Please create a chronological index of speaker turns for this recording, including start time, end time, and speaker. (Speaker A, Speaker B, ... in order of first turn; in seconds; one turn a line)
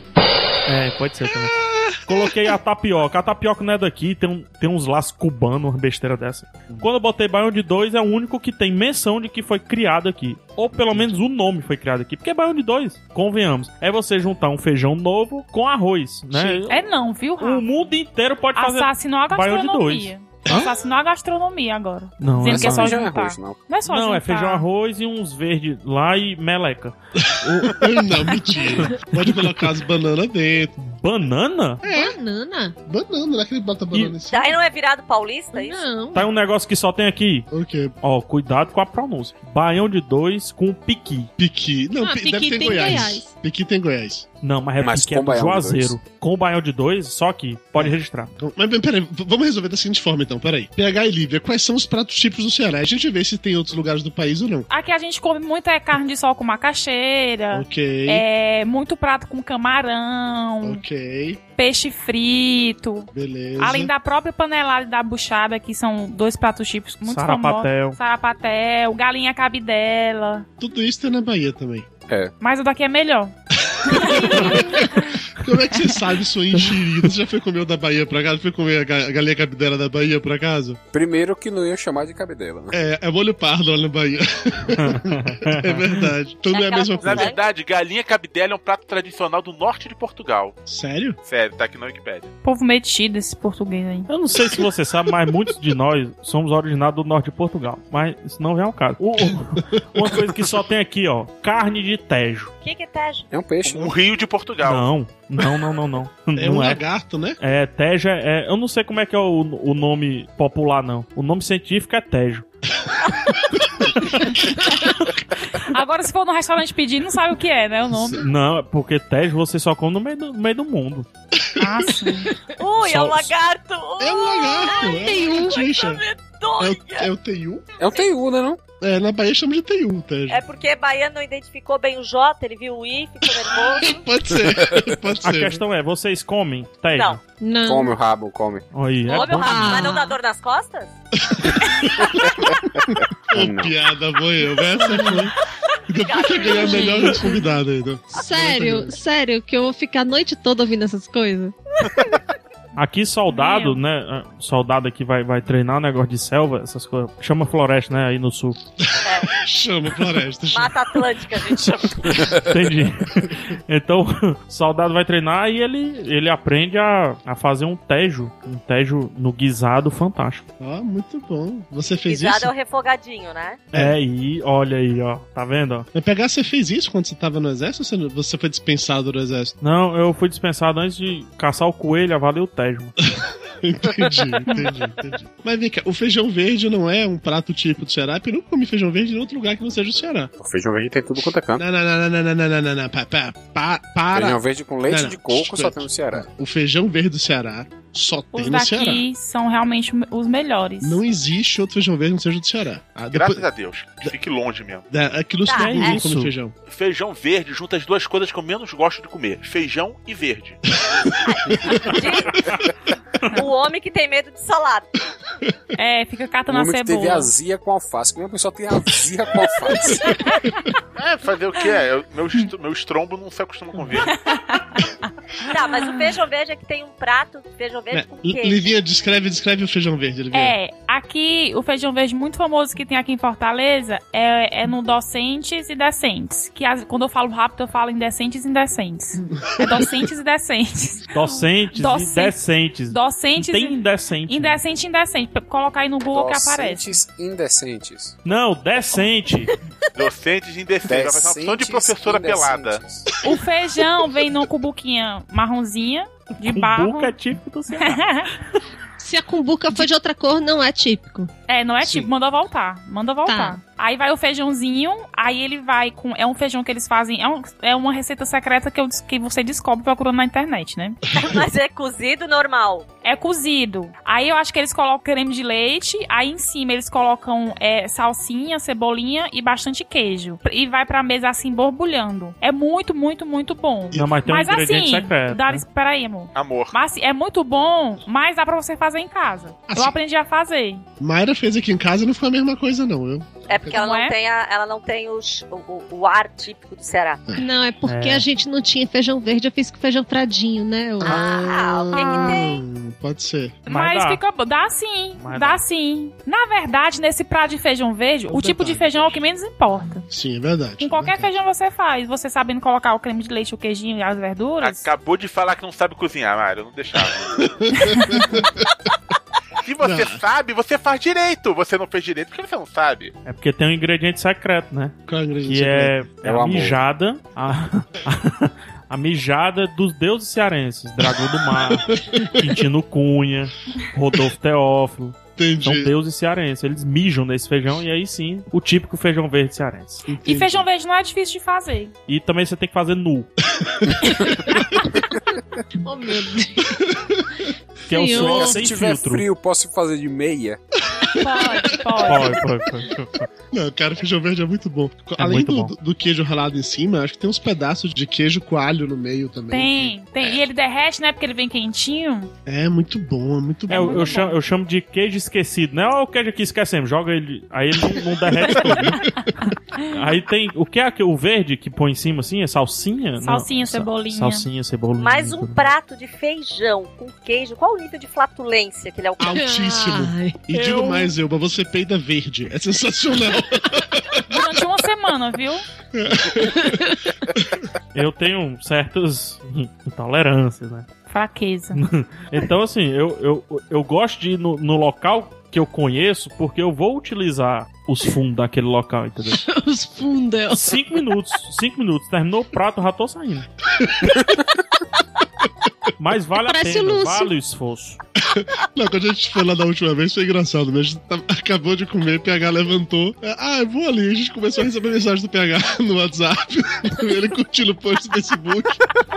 Speaker A: 0.7-16.9
Speaker B: 1.6-1.9
Speaker B: 16.3-16.7
Speaker C: 16.7-17.7
Speaker A: 17.4-20.1
Speaker C: 18.5-24.6
Speaker A: 22.2-23.0
Speaker D: 22.4-23.6
Speaker A: 23.8-28.1
Speaker B: 27.6-30.7
Speaker A: 28.9-29.1
Speaker A: 30.8-31.8
Speaker B: 31.8-32.1
Speaker E: 31.8-32.7
Speaker B: 32.8-34.6
Speaker F: 34.3-35.9
Speaker E: 35.5-36.2
Speaker A: 36.1-37.5
Speaker B: 37.5-37.9
Speaker A: 38.0-41.3
Speaker B: 41.4-44.2
Speaker E: 42.0-43.3
Speaker A: 44.4-48.3
Speaker D: 44.8-46.0
Speaker B: 47.7-54.7
Speaker C: 54.7-60.8
Speaker B: 57.5-58.2
Speaker B: 60.6-61.4
Speaker C: 61.5-70.5
Speaker B: 63.1-63.9
Speaker A: 67.0-68.0
Speaker B: 70.6-71.9
Speaker D: 72.1-72.3
Speaker C: 72.4-73.3
Speaker B: 73.7-80.8
Speaker C: 73.9-75.0
Speaker D: 80.9-82.7
Speaker B: 82.7-87.3
Speaker A: 84.8-86.0
Speaker F: 86.5-87.4
Speaker G: 87.0-90.6
Speaker B: 90.7-91.2
Speaker G: 91.2-92.3
Speaker C: 92.4-94.1
Speaker A: 94.1-102.5
Speaker B: 99.6-100.1
Speaker F: 102.6-103.3
Speaker D: 103.3-103.9
Speaker G: 103.6-104.9
Speaker A: 104.6-106.8
Speaker B: 106.3-107.4
Speaker A: 107.4-112.5
Speaker A: 114.0-114.3
Speaker C: 114.5-115.0
Speaker C: 115.6-118.2
Speaker A: 118.1-121.1
Speaker C: 121.6-122.3
Speaker F: 122.6-127.1
Speaker A: 122.8-123.3
Speaker B: 124.0-126.0
Speaker E: 124.8-125.6
Speaker B: 126.6-127.7
Speaker D: 127.8-128.6
Speaker B: 128.8-130.4
Speaker F: 130.3-134.0
Speaker B: 133.7-135.6
Speaker A: 135.2-137.2
Speaker F: 136.9-137.2
Speaker E: 137.4-137.9
Speaker D: 137.6-138.7
Speaker A: 138.7-139.8
Speaker F: 139.1-140.9
Speaker E: 139.2-140.2
Speaker B: 141.2-142.4
Speaker B: 142.9-145.3
Speaker D: 143.3-143.7
Speaker E: 144.8-145.1
Speaker B: 145.9-148.9
Speaker F: 146.0-147.4
Speaker E: 146.7-147.2
Speaker E: 148.1-151.5
Speaker A: 152.8-158.6
Speaker C: 153.3-153.8
Speaker B: 158.8-161.0
Speaker F: 159.0-159.3
Speaker F: 160.5-162.1
Speaker A: 162.3-170.4
Speaker B: 170.6-172.5
Speaker F: 172.1-173.6
Speaker A: 173.7-175.9
Speaker B: 175.9-179.5
Speaker A: 179.6-182.9
Speaker B: 183.1-190.3
Speaker D: 190.4-191.6
Speaker B: 191.6-199.0
Speaker D: 194.1-196.3
Speaker C: 198.3-201.0
Speaker B: 200.8-203.4
Speaker G: 203.1-204.8
Speaker B: 204.9-206.5
Speaker F: 205.4-206.0
Speaker A: 205.5-206.3
Speaker G: 206.7-210.6
Speaker F: 211.2-212.6
Speaker F: 213.3-214.9
Speaker C: 215.8-217.3
Speaker D: 216.5-220.1
Speaker G: 221.0-224.2
Speaker C: 224.1-224.9
Speaker F: 225.5-228.8
Speaker C: 225.5-226.1
Speaker B: 227.9-230.6
Speaker C: 230.3-242.4
Speaker A: 241.1-244.6
Speaker C: 242.9-246.9
Speaker D: 246.1-248.1
Speaker A: 248.2-249.5
Speaker G: 249.9-252.8
Speaker D: 250.8-253.1
Speaker C: 253.2-257.1
Speaker A: 256.4-258.0
Speaker C: 257.7-258.3
Speaker E: 259.0-261.3
Speaker C: 261.5-271.0
Speaker B: 261.8-262.1
Speaker E: 263.2-263.6
Speaker F: 271.1-272.9
Speaker C: 273.0-290.9
Speaker A: 283.9-285.6
Speaker G: 286.3-286.8
Speaker B: 289.7-290.0
Speaker B: 291.0-293.8
Speaker F: 293.5-297.2
Speaker C: 293.7-294.2
Speaker E: 297.4-301.4
Speaker A: 297.9-298.2
Speaker B: 301.0-303.6
Speaker F: 301.0-302.6
Speaker E: 302.0-302.2
Speaker C: 303.6-310.0
Speaker A: 303.7-304.2
Speaker A: 305.2-305.6
Speaker B: 308.3-309.2
Speaker B: 310.1-311.3
Speaker C: 310.8-314.9
Speaker G: 314.6-317.5
Speaker B: 317.4-318.7
Speaker C: 317.9-318.3
Speaker G: 319.6-323.1
Speaker B: 319.8-320.2
Speaker A: 323.2-340.1
Speaker B: 325.1-326.0
Speaker D: 326.2-326.8
Speaker B: 331.9-332.4
Speaker B: 335.4-335.9
Speaker B: 340.1-340.6
Speaker C: 340.2-341.9
Speaker A: 342.1-343.3
Speaker B: 343.6-344.4
Speaker E: 345.8-346.8
Speaker B: 346.7-347.4
Speaker E: 347.9-348.6
Speaker A: 347.9-349.3
Speaker D: 348.1-350.6
Speaker B: 350.9-351.6
Speaker C: 351.2-352.4
Speaker A: 352.0-353.3
Speaker B: 353.5-360.0
Speaker A: 355.2-355.7
Speaker C: 359.5-362.3
Speaker B: 362.4-364.2
Speaker C: 363.7-364.4
Speaker A: 363.7-369.0
Speaker B: 368.4-369.0
Speaker C: 368.6-370.0
Speaker A: 369.9-375.7
Speaker C: 373.2-374.4
Speaker F: 375.0-379.5
Speaker B: 379.2-384.2
Speaker E: 379.3-380.4
Speaker A: 380.5-381.1
Speaker C: 384.3-385.6
Speaker B: 385.9-387.6
Speaker E: 386.6-386.9
Speaker A: 387.9-390.9
Speaker C: 391.1-391.8
Speaker A: 391.7-399.4
Speaker E: 399.3-401.0
Speaker A: 400.5-403.5
Speaker B: 403.8-404.2
Speaker A: 406.0-408.0
Speaker E: 406.4-407.3
Speaker B: 408.2-418.9